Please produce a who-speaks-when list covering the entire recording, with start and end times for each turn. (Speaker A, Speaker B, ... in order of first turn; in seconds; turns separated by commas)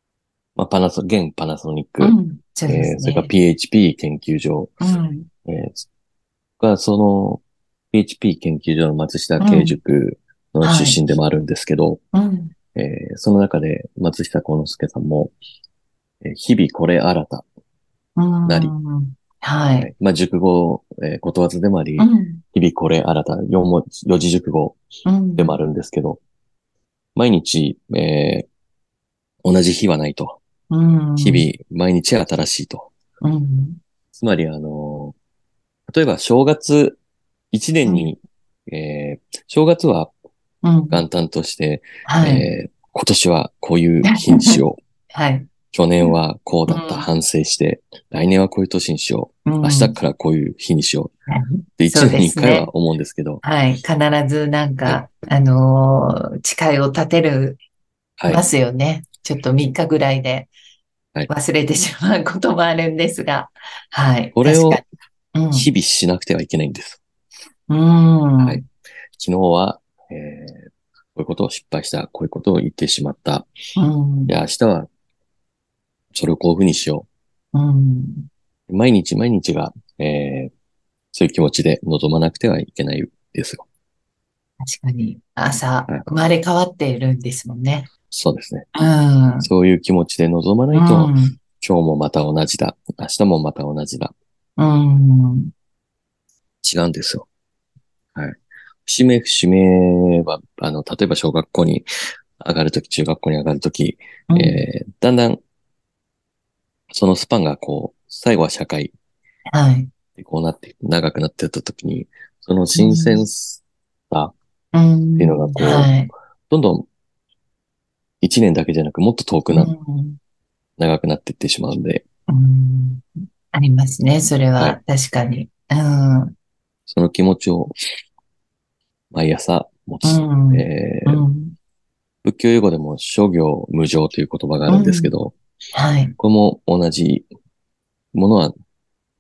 Speaker A: 0.6-2.1, Speaker B: 2.0-3.3, Speaker A: 2.7-4.8, Speaker B: 4.8-5.3, Speaker A: 5.5-5.8, Speaker A: 6.6-12.0, Speaker B: 9.4-9.8, Speaker B: 10.6-11.0, Speaker B: 12.1-12.5, Speaker A: 12.8-15.3, Speaker A: 16.2-17.4, Speaker B: 18.2-19.9, Speaker A: 18.4-18.7, Speaker A: 19.8-24.8, Speaker B: 22.0-22.4, Speaker B: 25.1-25.6, Speaker A: 25.4-26.2, Speaker A: 27.2-28.5, Speaker A: 29.4-30.4, Speaker B: 30.7-31.5, Speaker A: 31.2-32.9, Speaker B: 33.2-33.8, Speaker A: 34.1-35.2, Speaker A: 35.9-37.0, Speaker A: 37.5-40.1, Speaker B: 37.9-38.1, Speaker B: 40.6-41.0, Speaker A: 40.9-44.8, Speaker B: 42.1-42.5, Speaker B: 44.1-44.6, Speaker B: 45.1-45.5, Speaker A: 45.7-51.1, Speaker B: 46.7-47.1, Speaker B: 49.5-50.0, Speaker B: 51.3-52.7, Speaker A: 51.8-53.4, Speaker B: 53.4-57.6, Speaker A: 58.2-58.5, Speaker B: 58.3-60.5, Speaker B: 61.3-65.7, Speaker A: 64.4-64.8, Speaker A: 65.5-67.0, Speaker B: 67.7-68.6, Speaker A: 68.4-73.5, Speaker B: 73.8-74.4, Speaker A: 74.3-74.9, Speaker A: 76.1-77.1, Speaker B: 77.5-78.3, Speaker A: 78.7-80.5, Speaker A: 81.1-83.7, Speaker B: 84.6-87.9, Speaker A: 88.1-88.7, Speaker B: 88.8-89.5, Speaker A: 89.4-94.1, Speaker B: 90.7-91.4, Speaker B: 94.6-95.5, Speaker A: 96.6-97.3, Speaker A: 98.2-105.4, Speaker B: 104.3-104.6, Speaker A: 106.9-108.9, Speaker B: 109.5-109.9, Speaker A: 110.2-114.3, Speaker B: 112.7-113.3, Speaker B: 114.7-116.1, Speaker A: 115.2-116.0, Speaker A: 116.5-116.9, Speaker A: 118.2-119.7, Speaker B: 119.5-120.2, Speaker A: 120.8-122.0, Speaker B: 122.3-126.3, Speaker A: 126.9-127.8, Speaker A: 129.1-131.2, Speaker B: 130.0-131.6, Speaker A: 132.2-135.3, Speaker B: 134.7-135.1, Speaker B: 135.7-136.2, Speaker A: 136.2-137.3, Speaker A: 138.1-138.5